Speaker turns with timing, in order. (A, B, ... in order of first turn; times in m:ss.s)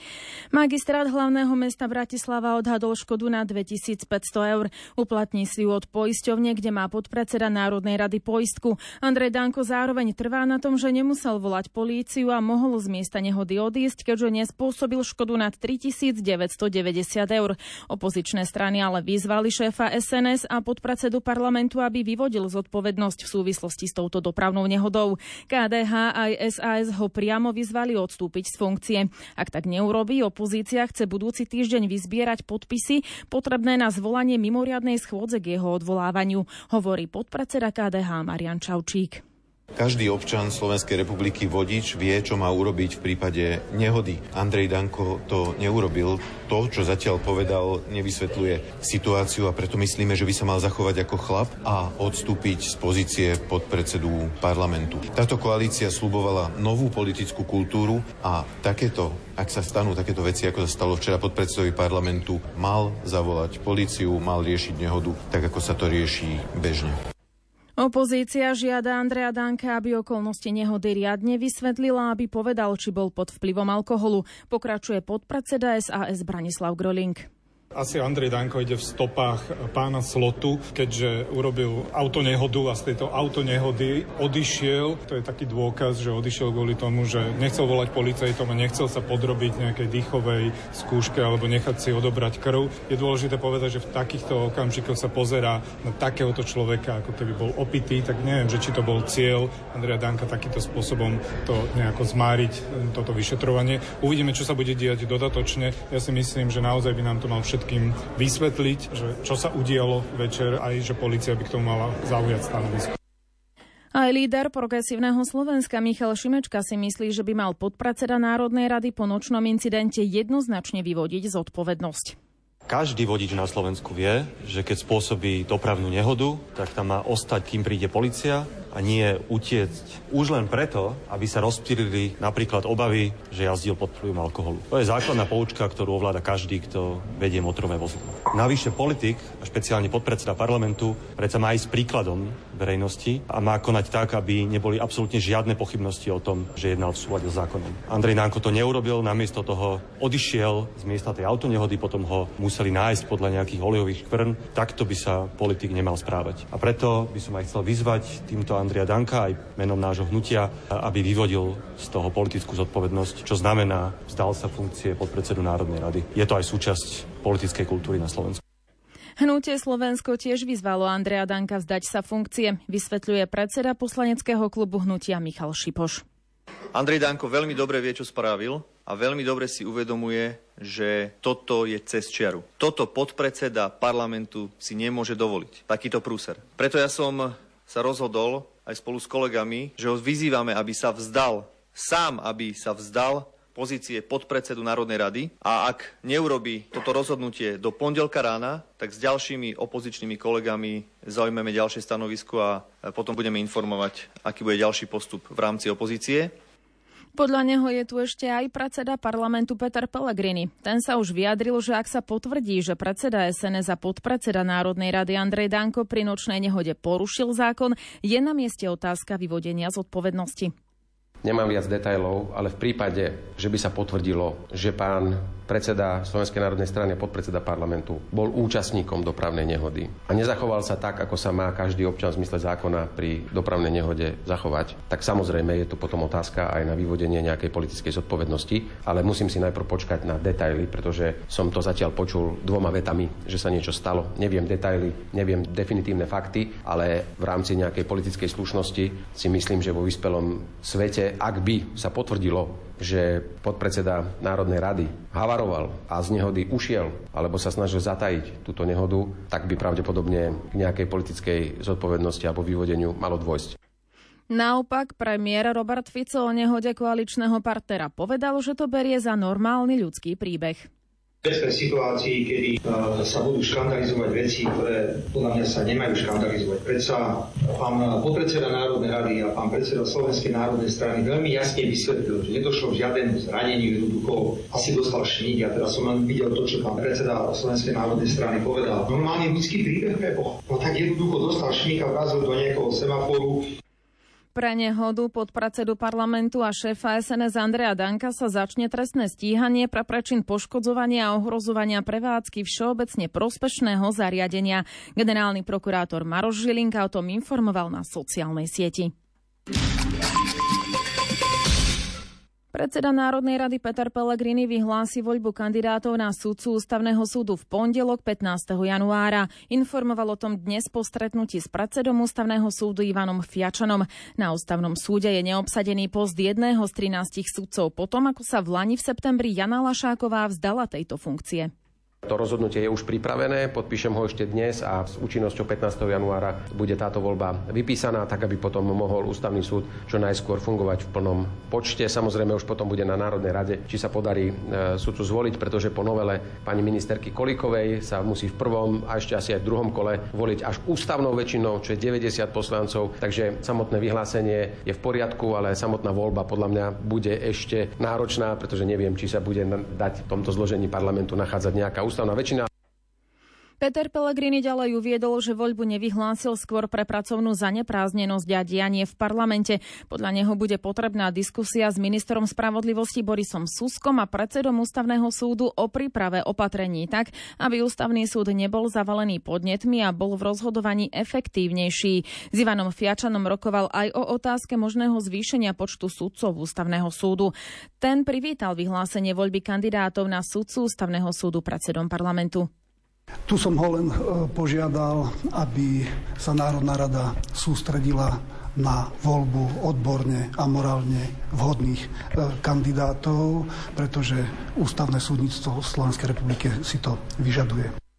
0:00.5-0:39.2 A
0:39.8-1:07.0 B
1:07.8-1:17.3 A
1:17.7-1:53.0 C
1:53.9-2:02.2 A
2:02.7-2:48.4 D
2:49.2-2:56.0 A
2:56.7-3:26.3 E
3:27.2-3:40.5 A
3:41.2-4:23.6 F
4:24.3-4:30.7 A
4:37.8-4:38.3 G
4:46.2-4:47.6 G
4:51.2-4:52.3 G
4:54.4-5:08.9 A
5:12.5-5:31.5 A
5:32.0-6:02.5 F
6:03.6-6:32.5 A
6:33.3-6:47.7 H